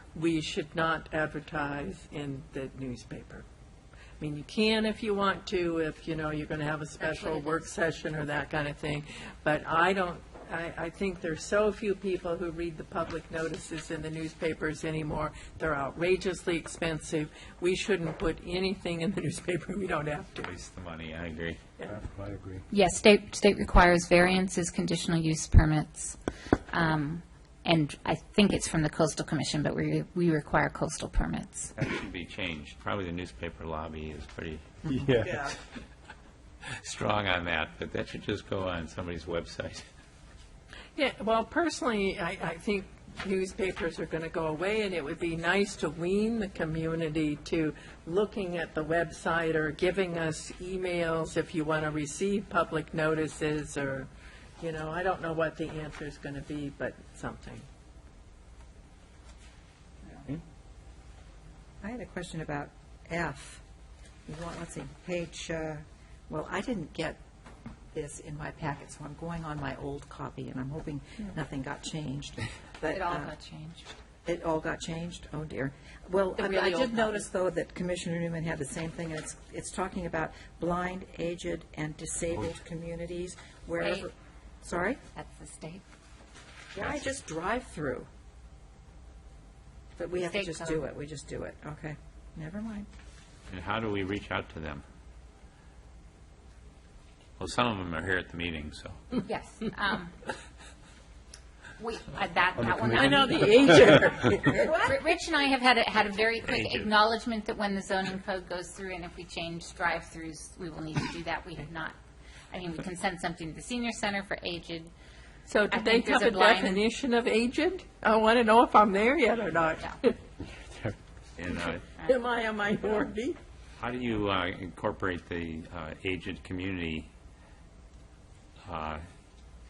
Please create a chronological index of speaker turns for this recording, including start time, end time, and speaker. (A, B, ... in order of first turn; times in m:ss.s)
0:00.1-0:03.5 A
0:04.2-0:20.4 A
0:06.9-0:08.0 B
0:20.4-0:21.6 C
0:21.9-0:22.6 D
0:22.7-0:26.1 B
0:26.7-0:31.7 B
0:31.7-0:34.7 C
0:34.9-0:35.4 D
0:36.8-0:39.9 C
0:41.0-0:57.6 A
1:01.8-1:03.6 E
1:04.3-1:07.2 E
1:07.9-1:13.3 E
1:12.9-1:13.8 B
1:14.2-1:25.0 E
1:16.4-1:17.2 B
1:25.1-1:25.8 B
1:26.7-1:28.1 E
1:26.8-1:27.1 C
1:30.0-1:32.9 E
1:30.2-1:30.8 B
1:33.5-1:34.8 C
1:37.4-1:39.2 C
1:39.3-1:40.1 B
1:41.8-1:51.9 B
1:42.6-1:44.5 D
1:43.3-1:44.0 A
1:46.4-1:46.9 C
1:52.5-1:54.9 B
1:55.5-2:00.2 A
1:55.7-1:56.9 B
2:00.5-2:00.9 D
2:01.4-2:01.9 C
2:01.5-2:03.4 A
2:02.0-2:02.3 B
2:03.8-2:07.1 C
2:08.6-2:09.0 C